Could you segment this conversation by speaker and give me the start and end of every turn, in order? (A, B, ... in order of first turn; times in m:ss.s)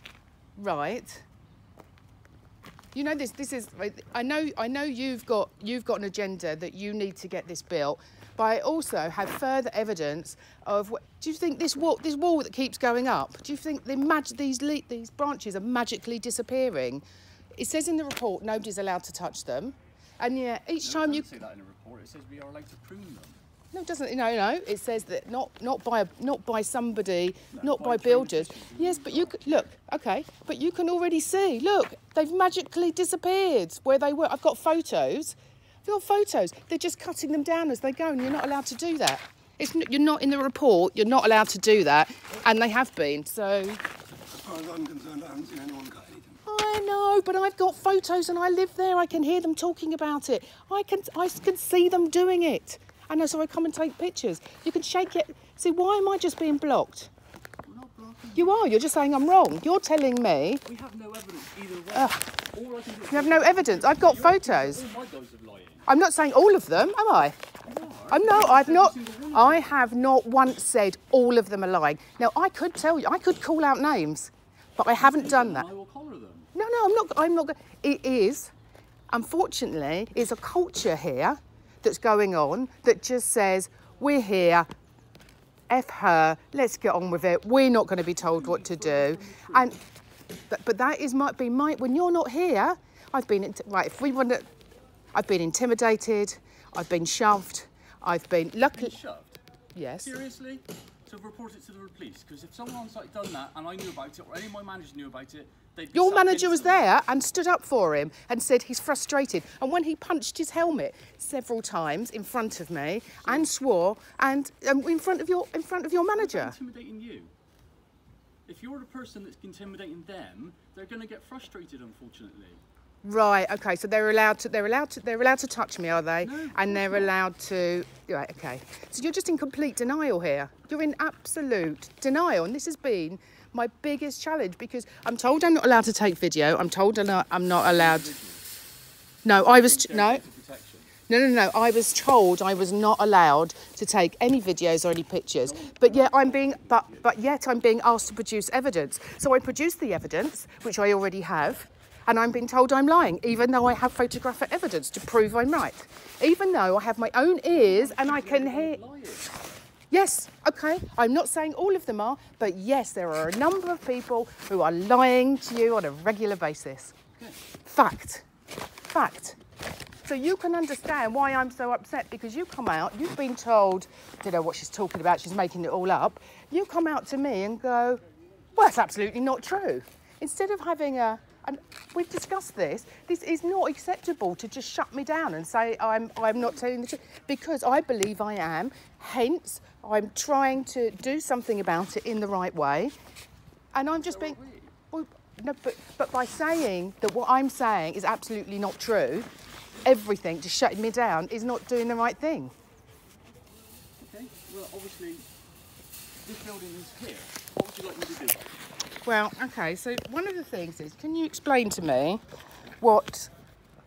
0:00.6-0:01.2 A
0:02.9-0:17.0 A
0:17.6-0:21.3 A
0:20.8-0:23.4 B
0:23.7-0:43.8 A
0:27.5-0:29.7 B
0:44.3-0:46.4 C
0:46.4-0:57.1 A
0:57.6-0:58.6 B
0:58.4-1:00.6 A
1:00.6-1:05.8 B
1:01.9-1:02.2 A
1:03.1-1:04.8 A
1:05.8-1:07.4 A
1:07.6-1:09.7 B
1:08.1-1:15.7 A
1:14.9-1:16.5 B
1:16.5-1:18.5 A
1:19.1-1:24.7 A
1:25.7-1:29.8 A
1:28.2-1:29.8 B
1:30.5-1:34.5 A
1:35.1-1:39.0 A
1:38.6-1:39.4 B
1:39.7-1:40.1 A
1:40.0-1:46.9 B
1:45.9-1:56.6 A
1:56.1-1:57.3 B
1:58.4-2:02.6 B
2:03.0-2:18.1 A
2:06.2-2:07.1 B
2:17.6-2:18.4 B
2:19.2-2:20.2 A
2:19.3-2:20.9 B
2:21.1-2:38.8 A
2:25.4-2:27.1 B
2:37.5-2:39.5 B
2:39.9-2:46.9 A
2:47.6-2:48.2 A
2:48.9-2:49.4 A
2:50.0-2:58.0 A
2:58.5-3:12.9 A
3:13.7-3:14.4 A
3:13.9-3:14.7 B
3:14.9-3:19.3 A
3:19.8-3:22.5 A
3:24.0-3:25.2 B
3:26.2-3:28.5 B
3:29.0-3:32.2 A
3:32.8-3:33.3 A